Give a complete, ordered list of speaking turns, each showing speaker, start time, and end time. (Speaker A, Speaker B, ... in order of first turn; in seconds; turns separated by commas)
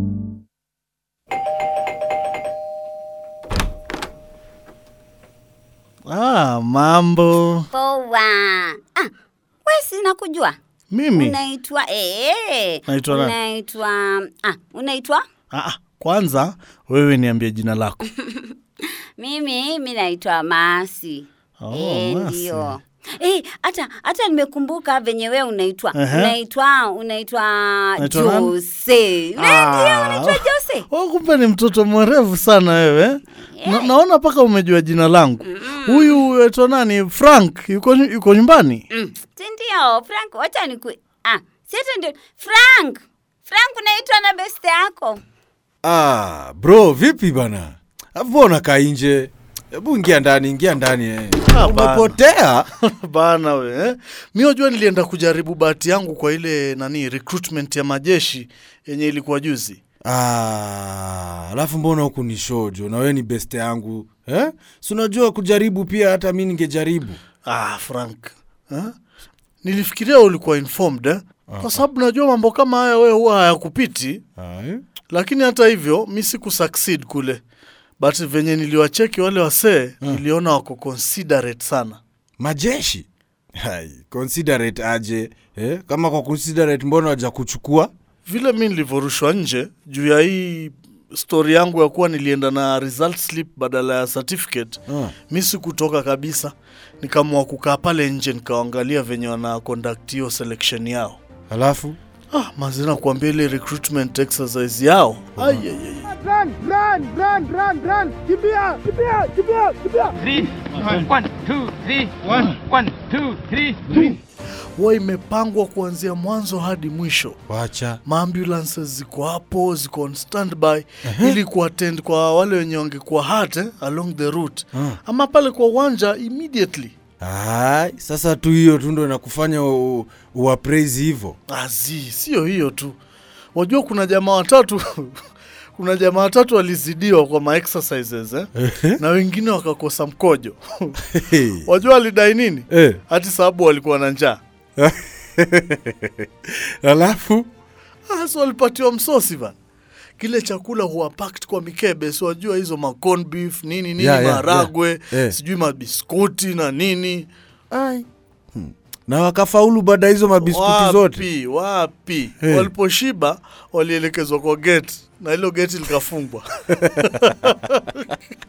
Speaker A: 6.1-7.7, Speaker B: 7.7-9.1, Speaker B: 9.7-10.6, Speaker A: 10.9-11.4, Speaker B: 11.1-15.2, Speaker A: 12.9-13.3, Speaker A: 15.5-18.0, Speaker B: 18.2-18.5, Speaker B: 19.2-30.9, Speaker A: 21.6-22.7, Speaker A: 25.9-26.3, Speaker A: 28.0-28.5, Speaker A: 29.4-38.8, Speaker B: 33.5-33.9, Speaker B: 35.4-36.2, Speaker B: 38.9-45.2, Speaker C: 45.8-52.7, Speaker A: 51.5-52.1, Speaker A: 52.9-59.8, Speaker C: 60.0-67.2, Speaker A: 67.5-68.9, Speaker A: 69.6-74.2, Speaker C: 71.5-71.8, Speaker C: 74.4-74.8, Speaker A: 75.1-77.4, Speaker A: 78.0-82.0, Speaker C: 82.4-83.0, Speaker C: 83.6-87.9, Speaker A: 88.2-101.2, Speaker C: 94.9-95.1, Speaker C: 101.5-102.0, Speaker A: 102.3-110.1, Speaker C: 105.4-105.6, Speaker D: 111.0-113.9, Speaker A: 114.8-117.4, Speaker C: 117.5-118.0, Speaker A: 118.0-126.9, Speaker C: 121.0-121.4, Speaker C: 127.2-131.4, Speaker A: 131.5-133.0, Speaker A: 133.5-135.2, Speaker A: 135.8-141.0, Speaker C: 138.6-139.0, Speaker C: 141.1-141.6, Speaker A: 141.6-144.4, Speaker C: 142.7-143.0, Speaker C: 144.8-147.5, Speaker A: 148.1-149.6, Speaker A: 150.2-157.3, Speaker C: 154.0-155.3, Speaker C: 157.7-161.2, Speaker A: 160.4-168.1, Speaker C: 162.4-162.7